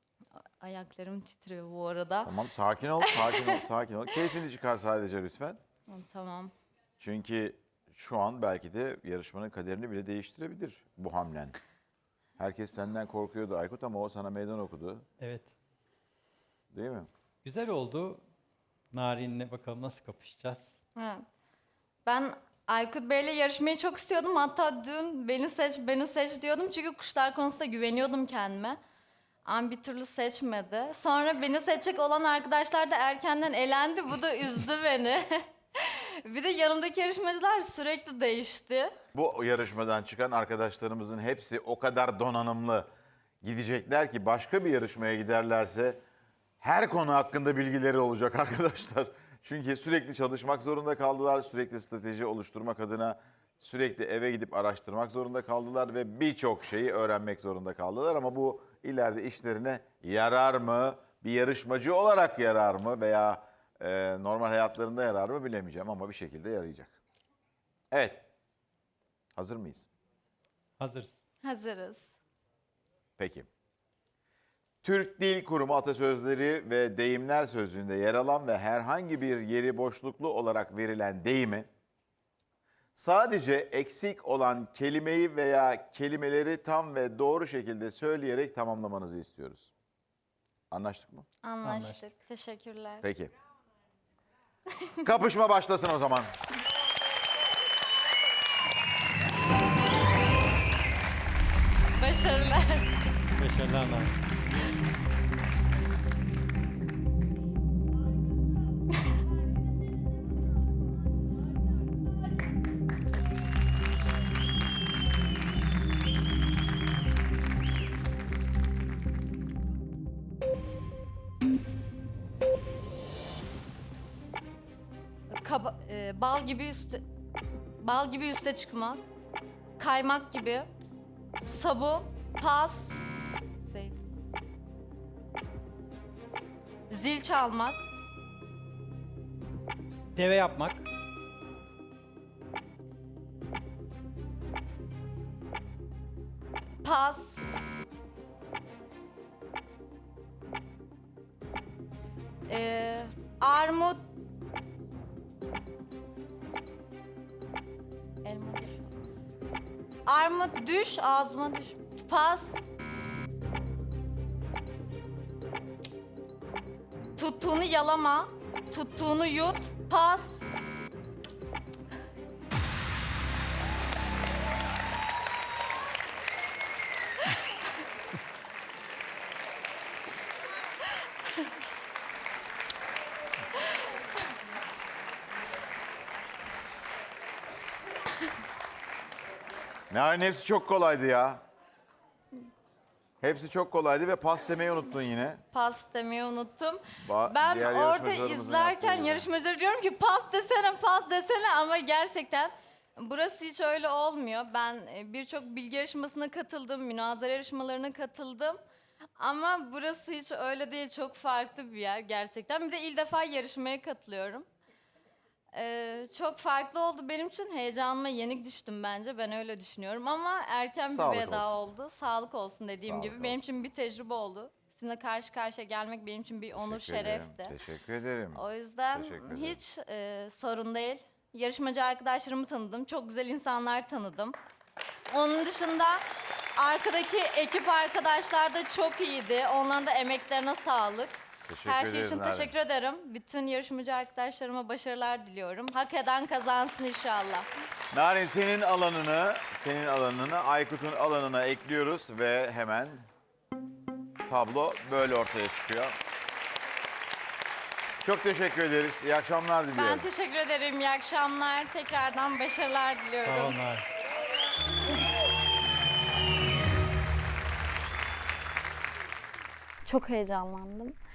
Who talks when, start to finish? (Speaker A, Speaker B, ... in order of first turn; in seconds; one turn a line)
Speaker A: 0.6-2.4
Speaker B: 2.2-5.6
Speaker A: 3.0-3.6
Speaker A: 5.9-6.5
Speaker B: 7.0-11.6
Speaker B: 12.4-15.1
Speaker C: 15.2-15.5
Speaker B: 16.7-17.1
Speaker C: 17.4-18.2
Speaker C: 18.9-20.7
Speaker A: 21.0-21.2
Speaker A: 22.1-28.8
Speaker A: 29.5-39.0
Speaker B: 39.1-42.9
Speaker B: 43.4-46.0
Speaker B: 46.6-67.0
Speaker B: 67.9-68.2
Speaker B: 69.4-69.9
Speaker C: 70.8-71.2
Speaker A: 71.4-72.1
Speaker B: 73.2-73.5
Speaker B: 74.8-81.7
Speaker B: 83.0-89.7
Speaker B: 90.7-91.2
Speaker A: 91.4-93.1
Speaker C: 91.6-92.0
Speaker B: 93.0-93.3
Speaker B: 95.0-96.3
Speaker A: 102.0-102.9
Speaker C: 103.4-104.2
Speaker A: 125.3-127.0
Speaker A: 127.8-129.0
Speaker A: 129.8-130.7
Speaker A: 131.4-132.9
Speaker A: 133.7-134.2
Speaker A: 136.9-137.8
Speaker C: 140.2-140.9
Speaker A: 146.8-147.4
Speaker A: 152.5-154.0
Speaker A: 158.2-159.1
Speaker A: 160.1-162.6
Speaker A: 167.2-170.4
Speaker B: 189.9-191.4
Speaker B: 193.2-195.4
Speaker A: 195.5-208.6
Speaker B: 197.0-199.3
Speaker A: 209.2-214.5
Speaker A: 215.5-227.6
Speaker B: 220.8-221.6
Speaker B: 222.7-223.6
Speaker B: 226.5-229.6
Speaker A: 228.3-234.4
Speaker A: 235.1-236.1
Speaker A: 236.6-247.5
Speaker B: 241.5-242.5
Speaker B: 247.9-253.1
Speaker B: 254.2-255.9
Speaker B: 258.0-260.1
Speaker A: 259.7-263.6
Speaker C: 263.2-263.9
Speaker A: 269.9-271.0